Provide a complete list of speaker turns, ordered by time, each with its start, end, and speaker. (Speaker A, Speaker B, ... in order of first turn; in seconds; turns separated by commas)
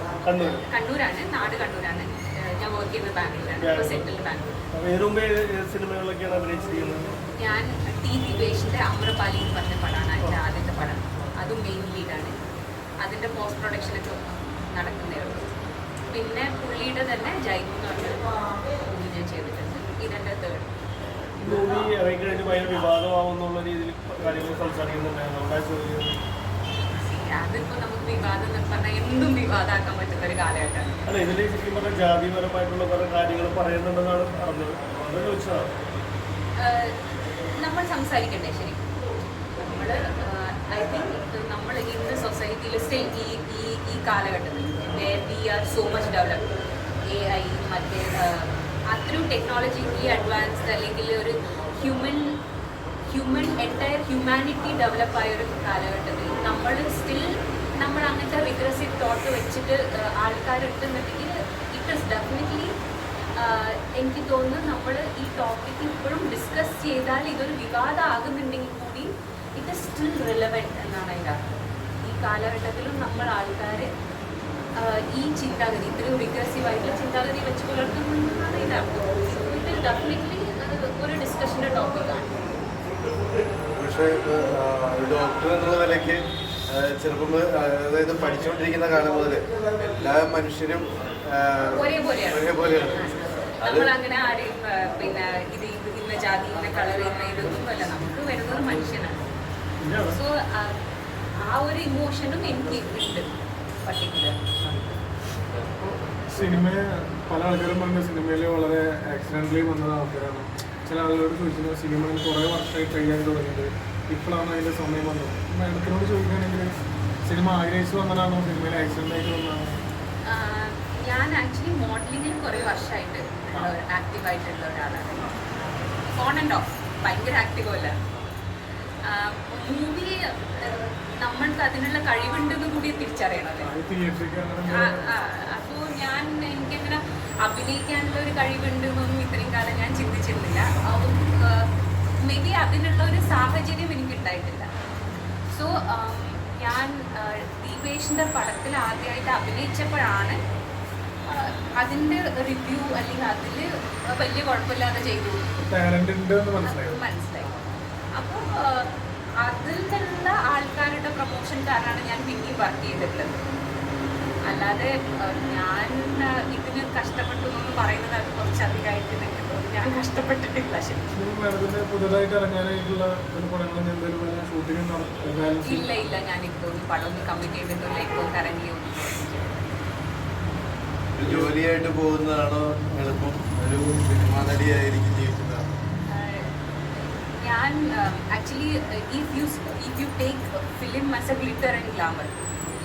Speaker A: 0.2-0.7, Speaker B: 0.4-4.5, Speaker A: 3.6-4.1, Speaker A: 4.7-7.2, Speaker B: 7.3-12.3, Speaker B: 13.0-15.4, Speaker B: 16.1-20.7, Speaker A: 21.4-26.2, Speaker B: 26.9-31.0, Speaker A: 31.1-35.7, Speaker B: 36.6-37.0, Speaker B: 37.6-38.8, Speaker B: 39.6-46.5, Speaker B: 47.0-52.4, Speaker B: 53.0-62.7, Speaker B: 63.4-71.4, Speaker B: 72.0-73.9, Speaker B: 74.7-82.6, Speaker C: 83.7-93.9, Speaker B: 91.7-99.3, Speaker A: 99.8-100.2, Speaker B: 100.1-100.8, Speaker B: 101.4-104.4, Speaker D: 105.6-116.7, Speaker D: 117.2-119.8, Speaker B: 120.2-125.3, Speaker B: 126.0-128.0, Speaker B: 129.0-133.7, Speaker D: 133.6-135.1, Speaker B: 134.7-144.7, Speaker B: 145.5-150.4, Speaker B: 151.2-155.5, Speaker D: 155.6-157.0, Speaker B: 156.6-157.5, Speaker B: 158.1-158.9, Speaker B: 159.4-163.4, Speaker B: 164.5-171.1, Speaker D: 171.2-175.9, Speaker B: 175.7-179.7, Speaker C: 181.1-185.7, Speaker D: 181.2-181.5, Speaker B: 186.1-192.3